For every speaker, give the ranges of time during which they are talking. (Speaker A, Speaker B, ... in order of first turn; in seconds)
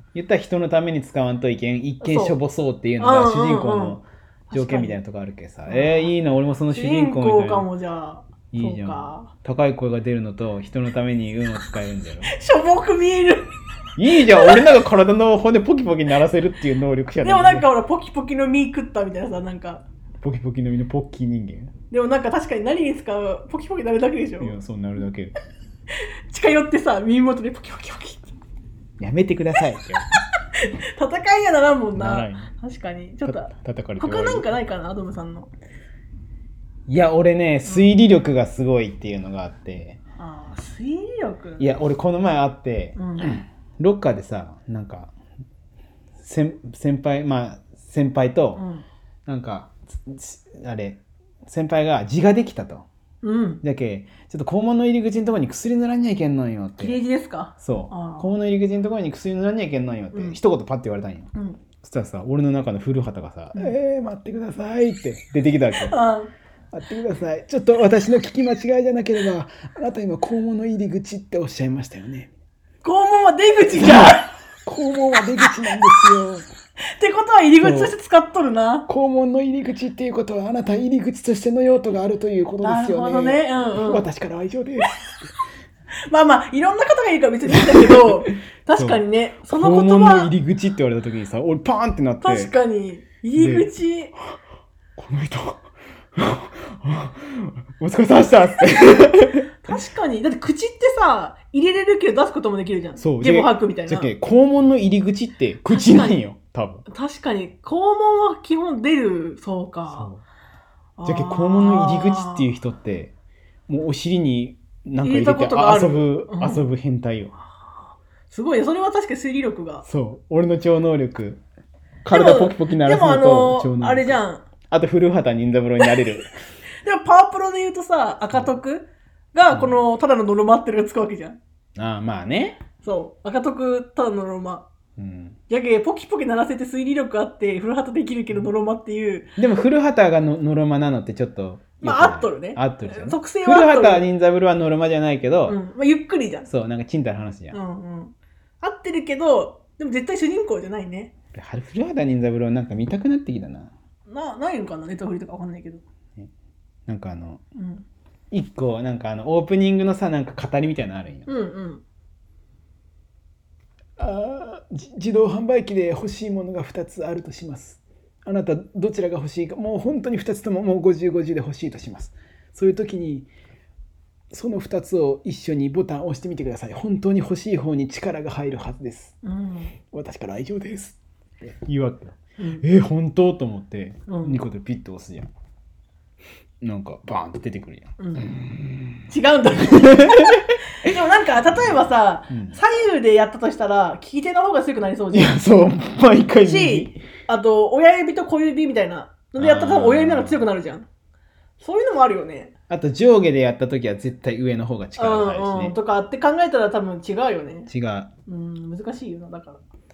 Speaker A: 0.1-7.7, 8.5-12.3, 14.0-17.7, 20.2-21.7, 24.4-25.3, 29.0-30.1, 31.9-32.5, 33.2-34.5, 36.9-40.0, 41.6-45.1, 46.2-48.6, 49.2-52.9, 53.6-57.0, 57.6-61.3, 61.8-66.0, 66.7-72.3, 73.7-76.5, 77.6-77.9, 78.9-84.9, 87.5-88.1, 88.7-92.5, 93.4-93.7, 95.0-95.6, 96.2-99.5, 103.0-106.8, 109.9-110.2, 111.0-113.1, 113.7-117.3, 119.8-121.4, 122.0-124.2, 124.7-126.3, 129.5-129.8, 131.8-132.6, 135.0-135.4, 139.4-145.6, 146.5-147.6, 151.3-153.7, 156.9-157.4, 158.3-161.3, 164.0-173.3, 174.3-179.1, 179.9-185.3, 186.6-189.0, 189.6-190.6, 192.3-192.6, 195.1-197.0, 199.4-200.4, 202.7-205.8, 207.7-208.1
Speaker B: 2.0-2.4, 3.0-4.0, 4.5-5.0, 5.7-6.1, 6.7-9.3, 12.2-13.5, 14.1-14.6, 17.2-19.8, 21.9-24.6, 26.3-28.3, 30.5-35.5, 37.6-38.0, 40.2-41.7, 43.0-43.4, 48.5-48.8, 53.2-53.6, 56.8-58.3, 61.3-61.6, 65.8-66.3, 72.8-74.2, 77.0-78.9, 82.6-84.1, 86.1-90.3, 92.2-94.1, 99.6-104.1, 105.7-106.2, 106.9-110.1, 111.0-112.5, 115.0-116.6, 118.3-119.8, 122.1-124.4, 126.8-131.4, 132.8-134.7, 135.5-139.3, 141.8-144.1, 145.5-146.5, 147.5-151.1, 154.1-155.8, 157.6-157.8, 161.3-161.8, 179.2-179.7, 184.1-184.4, 188.0-188.2, 189.1-195.4, 196.4-200.9, 201.6-202.5, 205.0-207.7, 208.3-209.6